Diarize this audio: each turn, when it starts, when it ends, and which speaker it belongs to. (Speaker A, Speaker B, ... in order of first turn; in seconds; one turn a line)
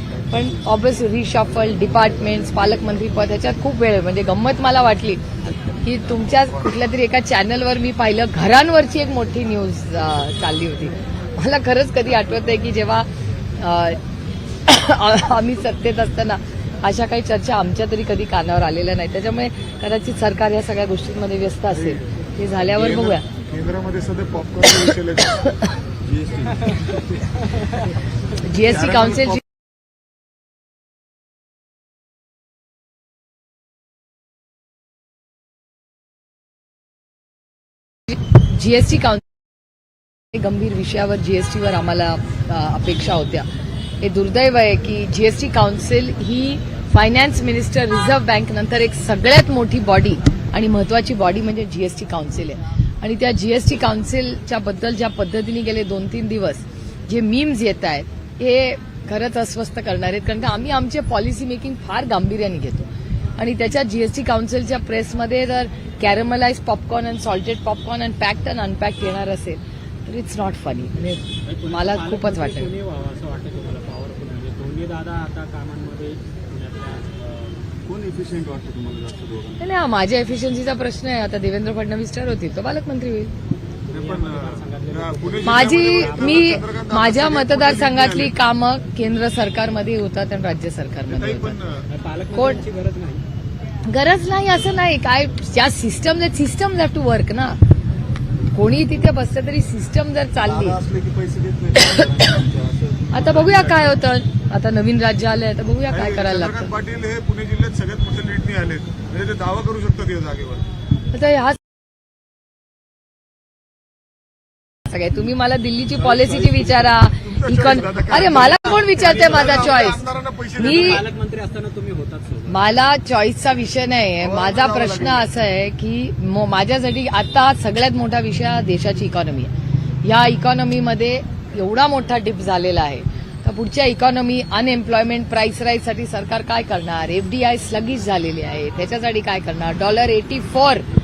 Speaker A: 0.3-14.0
Speaker A: 14.7-23.2
Speaker B: 22.7-25.6
Speaker C: 26.0-26.9
Speaker A: 28.4-29.4
Speaker B: 28.7-29.4
Speaker A: 38.4-39.2
Speaker A: 40.3-43.5
Speaker A: 44.0-72.7
Speaker D: 71.4-77.6
Speaker C: 77.8-79.7
Speaker A: 79.6-83.3
Speaker D: 83.9-86.5
Speaker B: 84.0-88.3
Speaker A: 85.4-91.5
Speaker B: 91.1-91.8
Speaker D: 91.9-93.2
Speaker A: 92.3-92.6
Speaker A: 93.8-97.6
Speaker A: 98.5-100.8
Speaker C: 100.4-104.0
Speaker A: 103.1-106.7
Speaker B: 105.9-110.6
Speaker A: 111.1-111.6
Speaker A: 114.8-120.0
Speaker C: 116.0-117.0
Speaker B: 117.2-121.0
Speaker D: 120.5-122.6
Speaker A: 120.5-121.0
Speaker A: 122.5-129.5
Speaker B: 124.2-125.2
Speaker A: 130.0-140.8